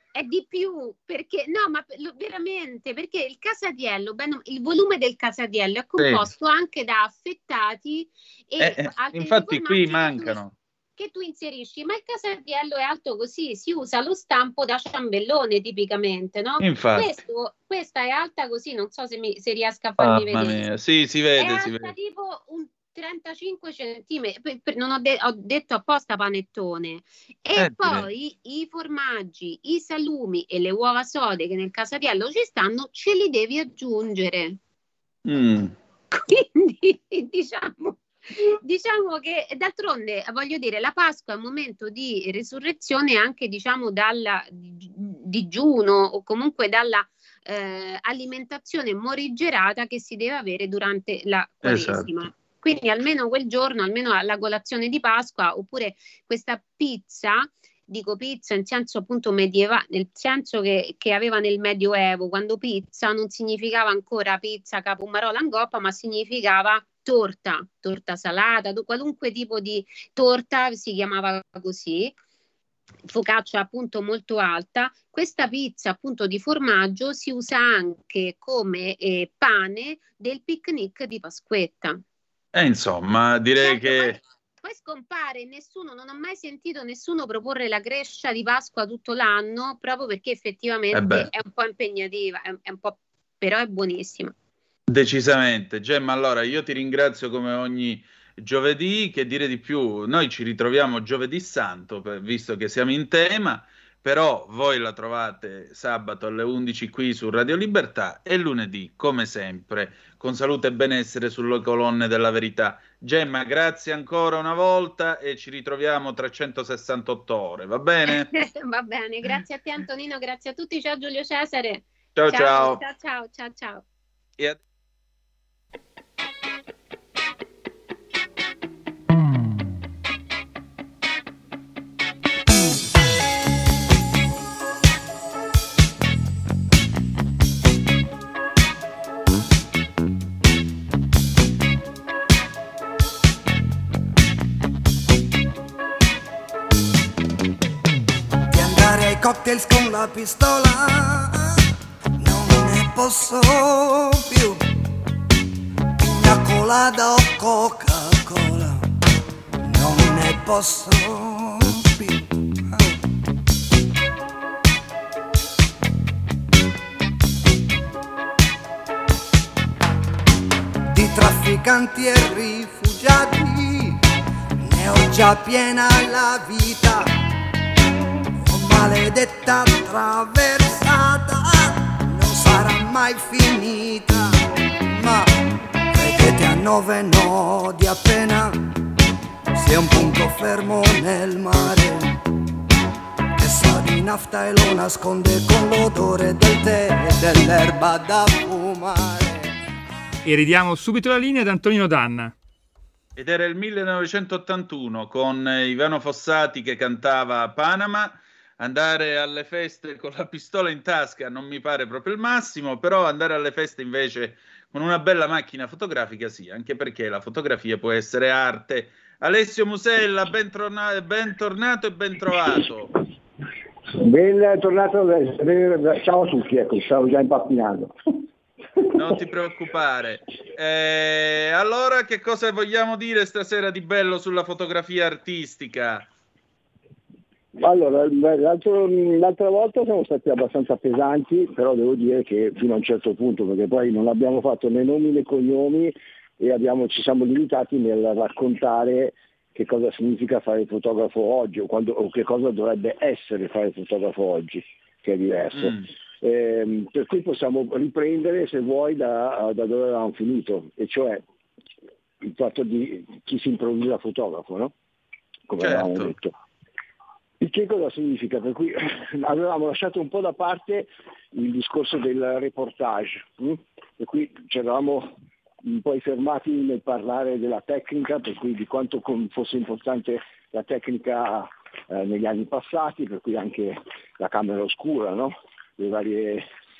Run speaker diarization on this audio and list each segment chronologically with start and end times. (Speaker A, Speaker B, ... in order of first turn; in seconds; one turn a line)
Speaker A: 0.1-10.4
Speaker B: 6.0-6.2
Speaker B: 8.6-10.5
Speaker A: 11.0-20.6
Speaker B: 16.6-17.1
Speaker B: 20.0-21.9
Speaker A: 21.4-34.6
Speaker B: 27.6-28.1
Speaker B: 35.2-35.7
Speaker A: 36.2-72.1
Speaker B: 51.6-52.1
Speaker A: 73.1-82.0
Speaker B: 82.5-84.2
Speaker A: 83.6-94.3
Speaker B: 90.9-91.3
Speaker B: 94.9-118.3
Speaker A: 118.1-123.8
Speaker B: 122.2-122.8
Speaker C: 148.5-151.6
Speaker C: 152.2-154.6
Speaker C: 156.0-158.9
Speaker C: 159.6-163.0
Speaker C: 170.9-174.0
Speaker C: 174.6-177.1
Speaker C: 178.4-185.3
Speaker C: 185.9-188.7
Speaker C: 189.5-192.1
Speaker C: 193.4-199.5
Speaker D: 200.2-202.3
Speaker B: 203.2-222.9
Speaker E: 223.9-227.9
Speaker B: 228.9-236.1
Speaker E: 237.6-261.2
Speaker B: 255.5-255.8
Speaker E: 262.2-264.7
Speaker E: 265.5-266.3
Speaker B: 265.6-266.1
Speaker E: 267.4-286.5